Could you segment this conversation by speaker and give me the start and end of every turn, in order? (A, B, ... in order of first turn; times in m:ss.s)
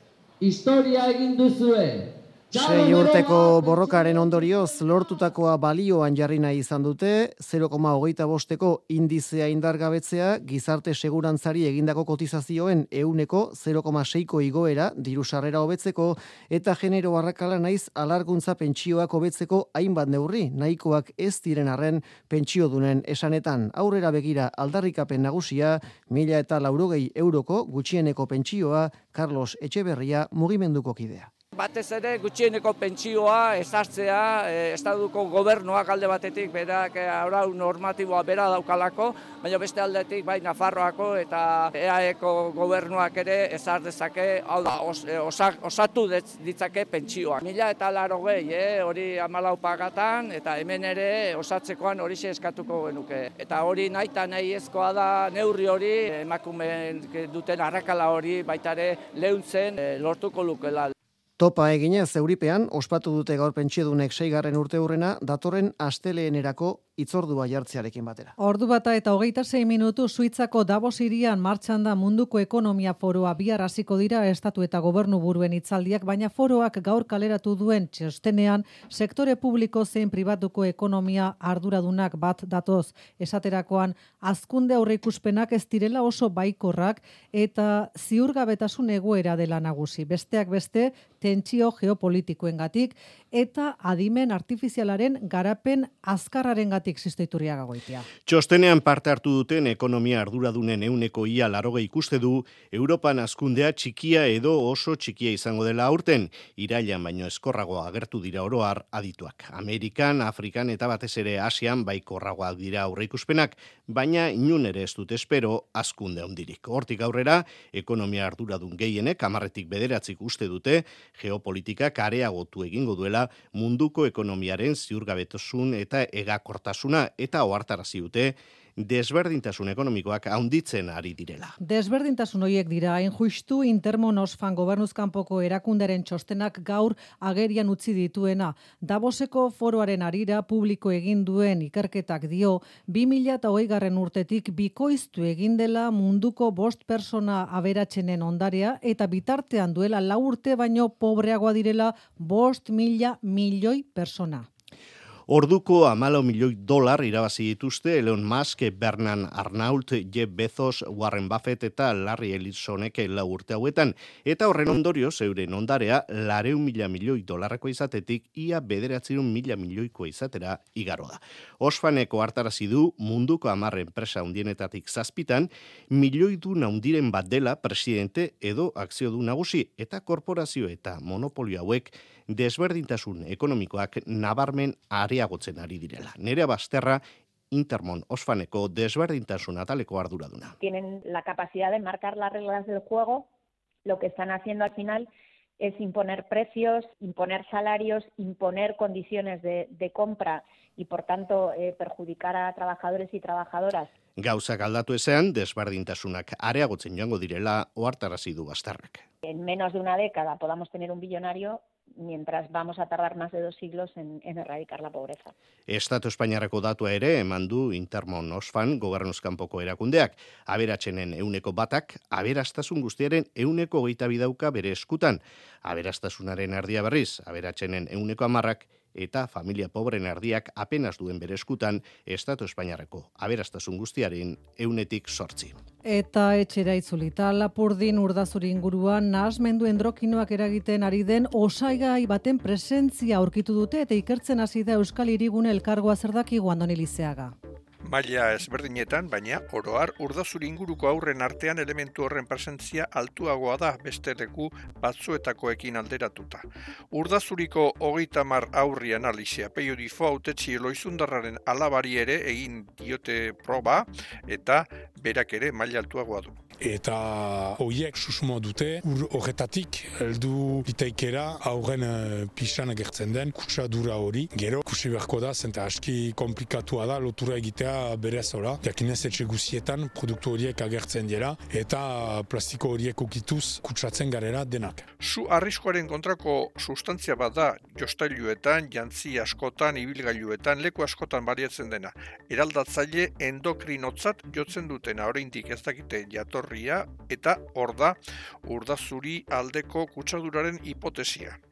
0:00.4-0:04.2 A
0:02.5-0:31.3 B
0:31.5-1:00.9 C
1:01.4-1:08.3 B
1:08.4-1:38.1 D
1:38.3-2:11.6 E
2:11.6-2:34.5 D
2:35.3-3:10.5 E
3:10.6-3:13.3 F
3:13.8-3:15.1 F
3:15.6-3:23.9 F
3:24.2-3:29.0 E
3:29.2-3:35.3 F
3:35.7-3:55.5 E
3:55.8-4:07.3 D
4:07.8-4:26.4 G
4:26.6-4:44.8 H
4:44.9-5:01.4 G